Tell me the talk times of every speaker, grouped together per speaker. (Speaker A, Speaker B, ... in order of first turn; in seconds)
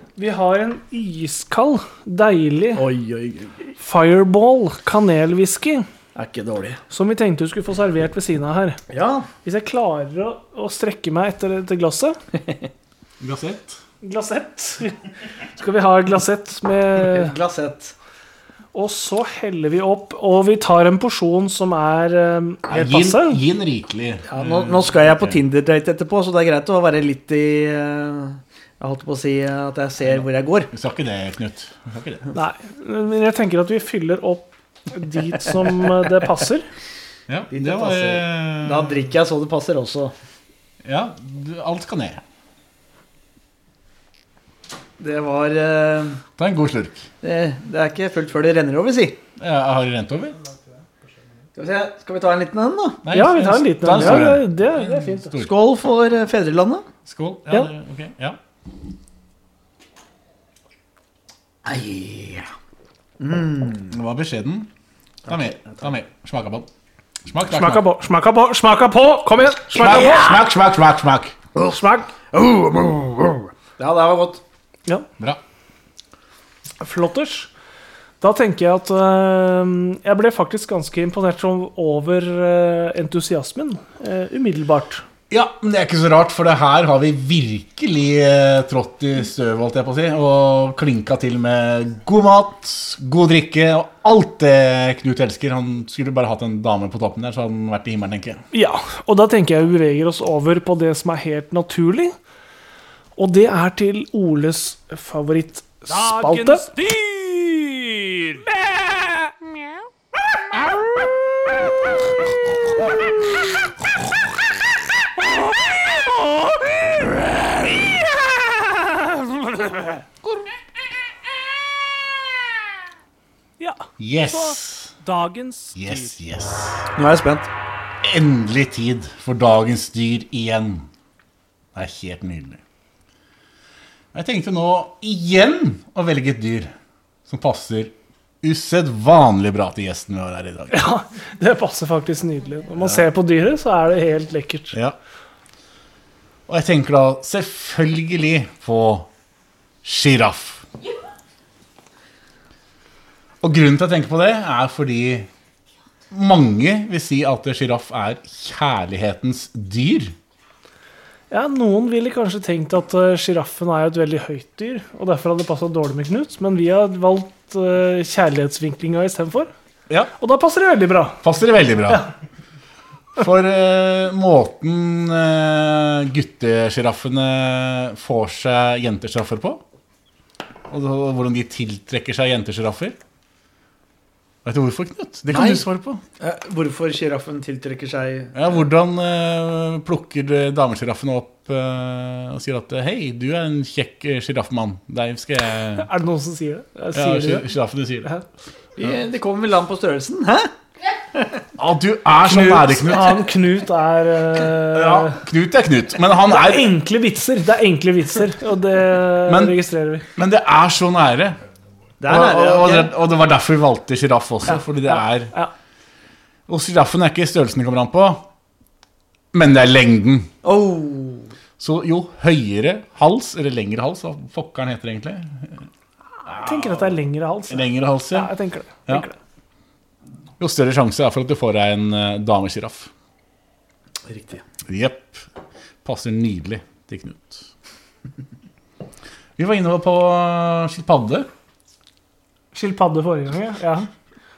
Speaker A: 0.2-2.9, 3.8-5.9, 6.9-8.8, 9.4-12.2, 14.0-17.4, 18.7-23.4, 32.3-36.7, 53.1-55.4, 67.5-70.4, 71.7-72.1, 76.8-77.5, 78.2-85.0, 98.5-102.2, 103.2-106.9, 119.2-119.9, 123.6-126.2, 140.7-144.8, 161.3-169.5, 170.2-171.2, 195.8-197.5, 202.2-205.2, 206.2-210.1, 214.5-215.5, 226.2-229.2, 242.5-243.9
Speaker B: 2.8-3.7, 6.2-6.8, 8.9-9.3, 17.0-17.9, 24.3-30.7, 37.5-40.1, 45.0-46.2, 47.2-49.2, 51.5-53.0, 54.0-54.3, 55.4-56.9, 61.6-62.5, 63.2-63.9, 65.3-65.9, 71.5-74.4, 126.9-127.5, 185.3-185.7, 186.2-188.6, 198.8-200.5, 201.1-201.4, 212.0-212.9, 220.4-221.3, 234.1-234.4
Speaker C: 13.2-13.8, 22.7-25.4, 30.1-32.3, 37.3-39.0, 40.8-42.2, 46.4-47.1, 49.4-50.4, 53.0-55.5, 57.1-58.4, 63.9-64.7, 65.2-66.7, 67.3-67.9, 69.7-71.4, 85.3-98.4, 124.0-124.9, 125.8-126.9, 128.0-130.9, 131.7-132.6, 134.1-136.7, 137.3-140.8, 146.5-149.1, 149.8-150.7, 153.4-155.3, 156.1-160.2, 171.2-172.1, 173.2-179.6, 180.7-183.0, 184.4-186.0, 188.3-195.9, 196.9-198.1, 201.6-203.3, 204.7-206.7, 209.2-209.6, 210.2-211.4, 212.1-215.3, 216.5-218.3, 219.3-220.3, 221.6-225.7, 226.3-226.9, 227.5-228.3, 230.4-232.9, 234.7-235.3, 235.8-237.5, 239.4-241.3